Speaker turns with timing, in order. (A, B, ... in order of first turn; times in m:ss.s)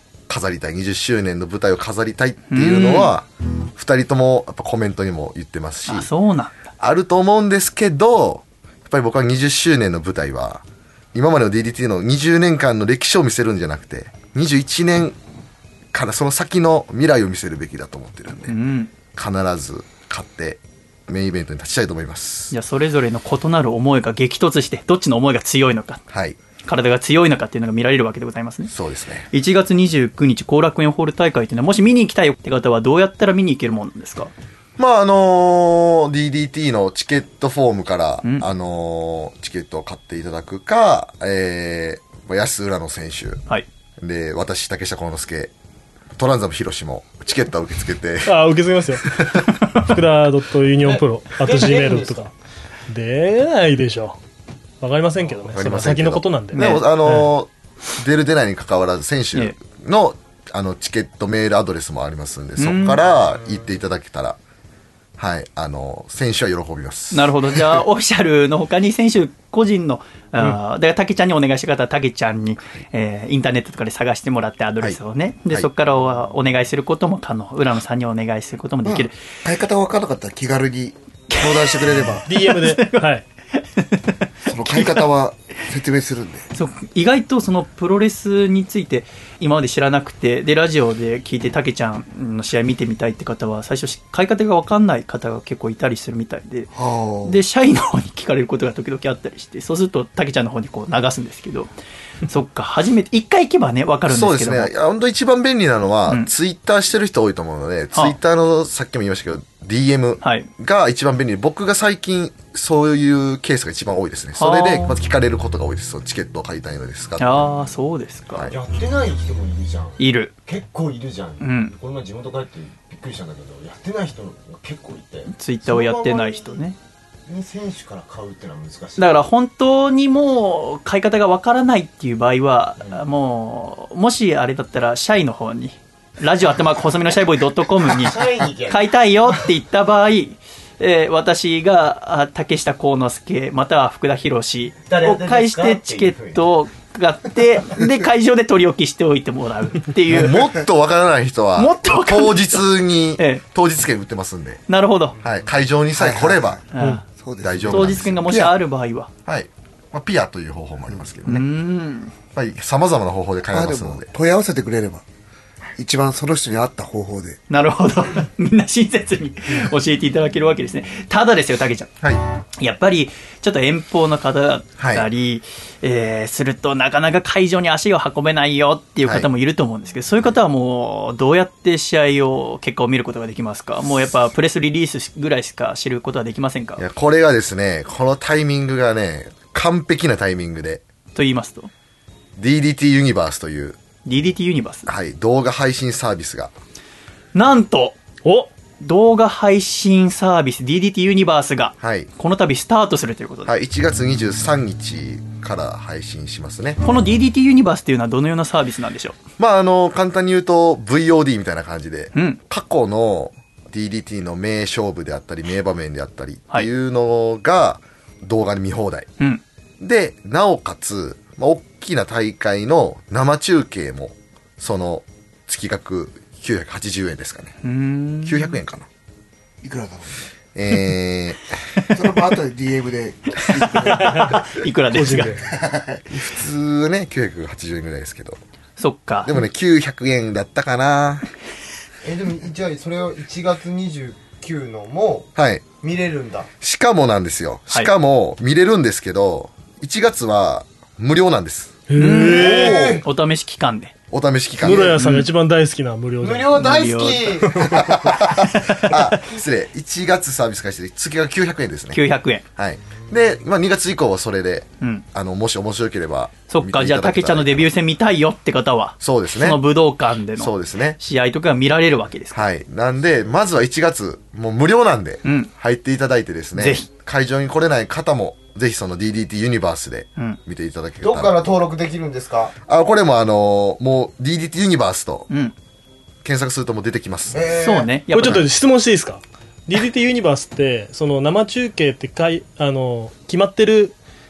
0:00.3-0:06.1 A
0:02.5-0:03.1 B
0:05.9-0:06.6 B
0:06.8-0:15.2 A
0:15.9-0:18.5 A
0:18.3-0:18.9 B
0:19.1-0:22.5 A
0:22.5-0:26.0 B
0:26.1-0:26.4 A
0:26.6-0:28.7 B
0:28.7-0:29.3 A
0:29.3-0:34.3 B
0:34.8-0:43.4 A
0:44.0-0:45.5 A
0:46.2-0:48.4 A
0:48.3-0:52.3 C
0:49.1-0:49.4 A
0:50.8-0:52.2 D
0:52.9-0:54.2 C
0:54.8-0:57.3 C
0:55.5-1:04.4 A
0:56.5-0:56.8 B
1:02.6-1:03.0 B
1:05.2-1:07.8 A
1:07.1-1:19.2 B
1:18.8-1:22.3 E
1:21.3-1:21.8 B
1:22.3-1:23.2 C
1:22.3-1:25.0 B
1:24.5-1:26.5 E
1:26.5-1:36.7 B
1:36.8-1:37.4 E
1:37.2-1:41.7 B
1:42.3-1:44.7 B
1:44.1-1:57.7 A
1:50.2-1:50.5 B
1:54.4-1:54.9 B
1:57.2-1:58.5 B
1:58.3-1:58.6 A
1:58.5-2:06.6 D
2:00.0-2:00.3 B
2:01.4-2:01.7 B
2:05.3-2:06.8 B
2:07.3-2:09.3 D
2:09.0-2:30.5 B
2:17.9-2:19.5 D
2:24.9-2:26.4 D
2:30.1-2:34.6 A
2:31.6-2:32.6 B
2:33.2-2:33.4 B
2:34.7-2:35.2 B
2:35.2-2:36.6 A
2:35.9-2:38.5 E
2:36.7-2:37.0 B
2:37.4-2:38.6 A
2:37.7-2:39.1 B
2:39.3-2:41.5 A
2:41.3-2:42.1 B
2:42.3-2:44.1 A
2:43.5-2:45.0 E
2:45.8-2:47.4 E
2:47.5-2:51.9 B
2:52.6-3:06.8 B
2:54.8-2:55.1 A
2:59.0-2:59.3 A
3:06.8-3:10.8 A
3:11.2-3:11.7 B
3:12.4-3:13.8 A
3:14.1-3:14.9 B
3:14.9-3:16.5 A
3:17.4-3:18.0 B
3:18.2-3:18.5 C
3:18.8-3:23.5 B
3:21.8-3:22.1 A
3:23.5-3:26.8 A
3:26.8-3:29.2 B
3:29.4-3:39.1 A
3:39.8-3:47.6 A
3:47.6-3:48.6 B
3:48.2-3:48.9 A
3:49.6-3:50.2 E
3:50.6-3:51.6 A
3:51.9-3:54.6 E
3:53.6-3:55.4 B
3:54.0-3:54.4 C
3:54.9-3:55.5 C
3:55.2-3:56.0 E
3:56.1-3:58.4 A
3:58.8-3:59.3 B
3:59.2-4:01.3 A
4:02.0-4:06.5 D
4:05.4-4:05.6 A
4:06.6-4:11.8 A
4:11.9-4:12.9 C
4:12.0-4:13.9 B
4:12.3-4:13.0 D
4:12.5-4:13.0 A
4:14.1-4:15.0 A
4:14.6-4:16.6 C
4:15.0-4:15.3 B
4:16.2-4:17.7 D
4:16.6-4:17.4 B
4:17.4-4:17.8 C
4:17.7-4:22.0 A
4:18.4-4:19.2 B
4:21.9-4:22.4 B
4:22.6-4:27.7 A
4:26.5-4:32.4 B
4:29.0-4:29.6 A
4:30.4-4:31.0 A
4:32.3-4:41.4 A
4:35.2-4:35.5 B
4:36.6-4:36.9 B
4:41.0-4:42.5 D
4:42.7-4:45.3 A
4:46.2-4:47.4 A
4:47.3-4:47.9 D
4:47.6-4:48.5 B
4:48.1-4:54.0 C